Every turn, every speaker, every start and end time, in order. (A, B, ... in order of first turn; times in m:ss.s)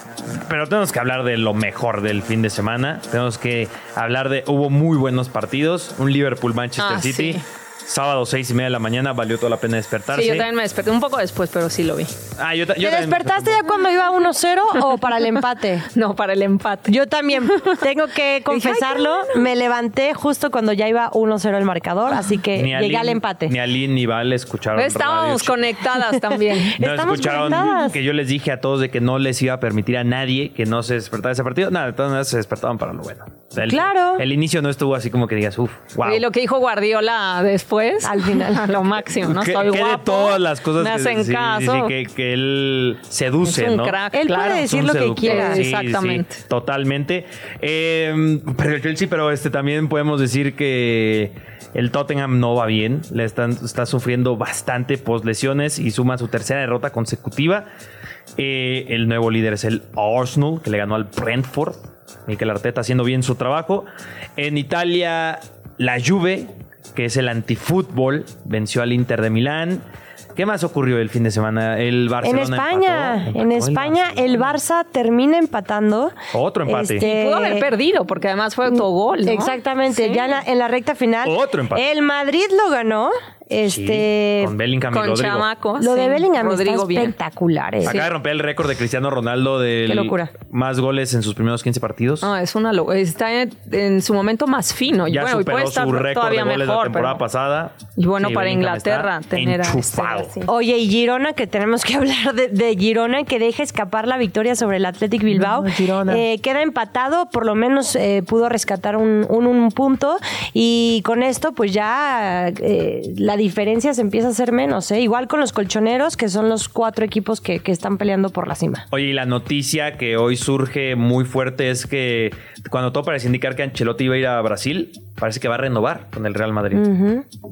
0:00.3-0:10.5 A
0:06.8-0:07.4 B
0:10.1-0:12.1 B
0:12.4-0:13.6 A
0:12.8-0:15.9 C
0:15.9-0:16.9 B
0:16.9-0:23.5 C
0:17.4-0:17.8 B
0:18.5-0:19.4 B
0:22.5-0:25.6 A
0:24.7-0:26.8 B
0:26.6-0:28.0 C
0:26.8-0:36.2 A
0:33.6-0:34.2 C
0:36.0-0:41.9 B
0:38.0-0:38.7 C
0:39.2-0:44.0 A
0:43.4-0:44.7 B
0:44.1-0:45.6 C
0:44.5-0:57.7 A
0:45.2-0:46.4 B
0:58.4-1:14.5 A
1:12.2-1:16.1 C
1:16.3-1:17.0 A
1:16.6-1:17.7 C
1:17.0-1:20.4 B
1:18.7-1:24.5 C
1:21.2-1:21.8 A
1:23.6-1:25.5 A
1:24.9-1:27.1 B
1:25.8-1:28.0 C
1:27.8-1:32.3 A
1:27.8-1:28.1 B
1:29.8-1:30.3 C
1:32.2-1:37.2 B
1:35.1-1:40.3 A
1:38.0-1:40.5 B
1:40.4-1:58.8 C
1:45.8-1:46.2 A
1:58.9-2:06.8 A
2:06.7-2:07.2 C